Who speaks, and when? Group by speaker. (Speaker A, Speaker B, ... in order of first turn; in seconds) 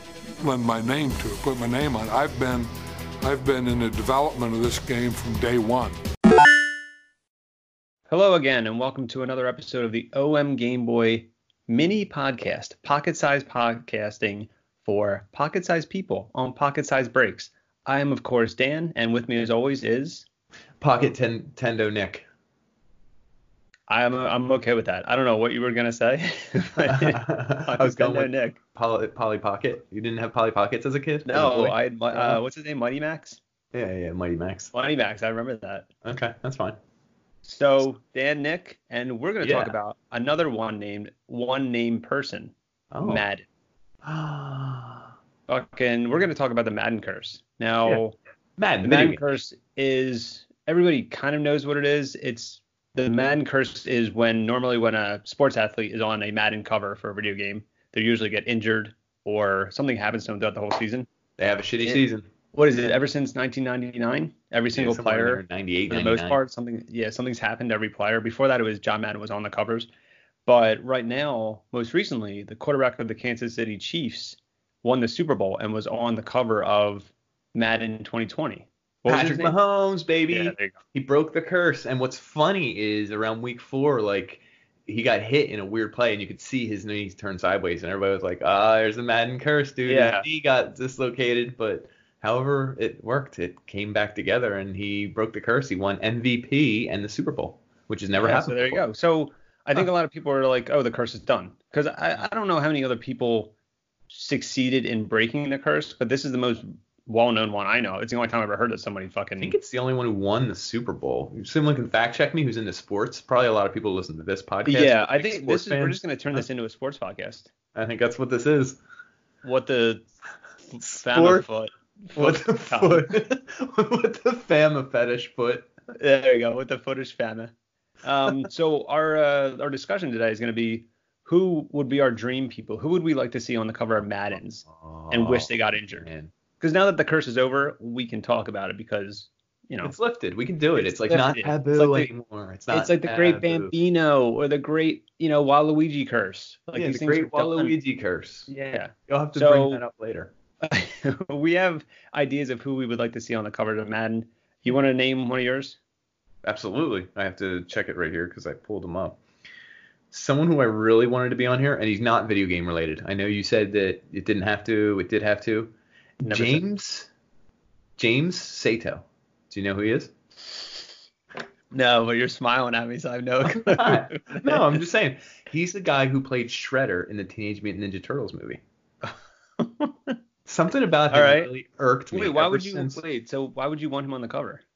Speaker A: 0.4-6.0
Speaker B: 8.1-20.3, 23.9-28.6, 31.3-33.4, 34.7-35.9, 37.4-43.5, 45.5-48.2, 48.8-61.1, 61.8-69.9, 70.5-79.6, 80.3-80.8, 89.8-90.3, 98.2-103.5, 104.1-109.6, 114.7-117.5, 119.4-120.1, 120.7-123.1, 126.0-127.5, 128.0-140.0, 140.8-142.1, 142.7-147.8, 148.5-149.8, 150.6-155.8, 166.2-166.7, 171.7-174.8, 179.6-180.2, 181.1-181.5, 182.1-184.6
Speaker C: 20.8-22.3, 26.8-32.4, 33.7-34.7, 36.0-36.8, 39.4-39.8, 42.9-43.2, 44.0-45.1, 48.6-49.2, 61.4-62.3, 64.7-66.4, 79.1-98.8, 109.4-116.5, 117.8-118.8, 120.8-121.5, 122.2-125.7, 134.3-136.3, 139.8-143.7, 146.8-148.5, 149.1-150.3, 156.4-159.2, 160.1-165.7, 166.3-167.1, 168.0-170.1, 173.4-178.6, 180.5-183.0